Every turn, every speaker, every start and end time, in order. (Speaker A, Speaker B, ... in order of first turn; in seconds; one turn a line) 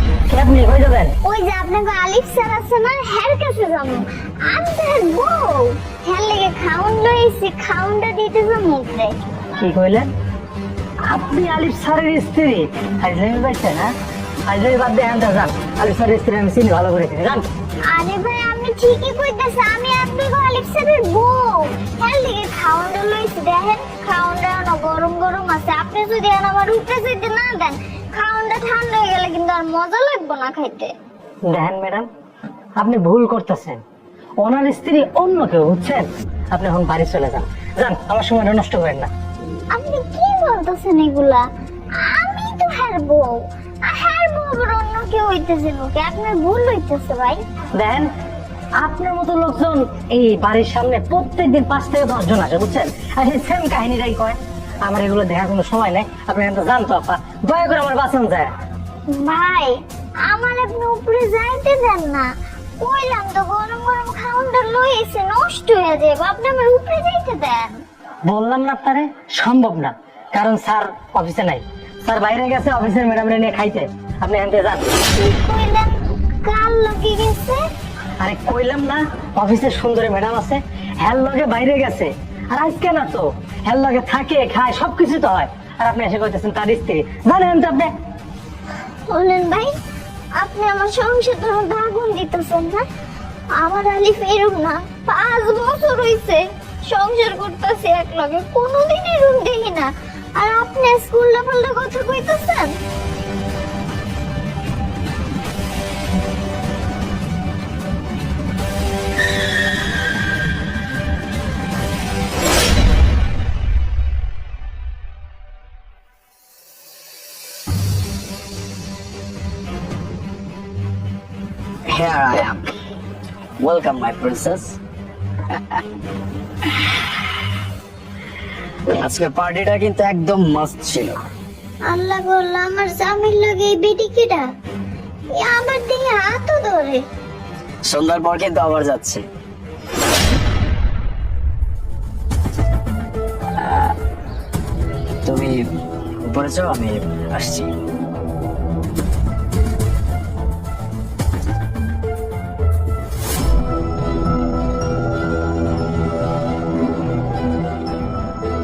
Speaker A: 0.3-1.1
Speaker B: 1.2-9.2
Speaker A: 9.6-10.1
Speaker A: 11.1-13.9
Speaker A: 14.5-17.4
Speaker B: 17.9-30.9
Speaker A: 31.5-32.1
Speaker A: 32.8-33.8
Speaker A: 34.4-39.1
Speaker B: 39.7-41.5
Speaker B: 42.0-47.4
Speaker A: 47.8-48.1
Speaker A: 48.8-58.5
Speaker B: 59.1-62.3
Speaker B: 62.8-67.8
Speaker A: 68.3-74.9
Speaker B: 75.1-75.9
Speaker B: 76.4-77.6
Speaker A: 78.2-87.9
Speaker B: 89.1-89.7
Speaker B: 90.4-92.8
Speaker B: 93.6-102.7
Speaker C: 121.9-122.7
Speaker C: 123.6-124.8
Speaker C: 128.9-131.2
Speaker B: 131.9-134.4
Speaker B: 135.4-137.0
Speaker C: 137.9-139.2
Speaker C: 143.6-143.9
Speaker C: 145.3-145.5
Speaker C: 146.2-147.7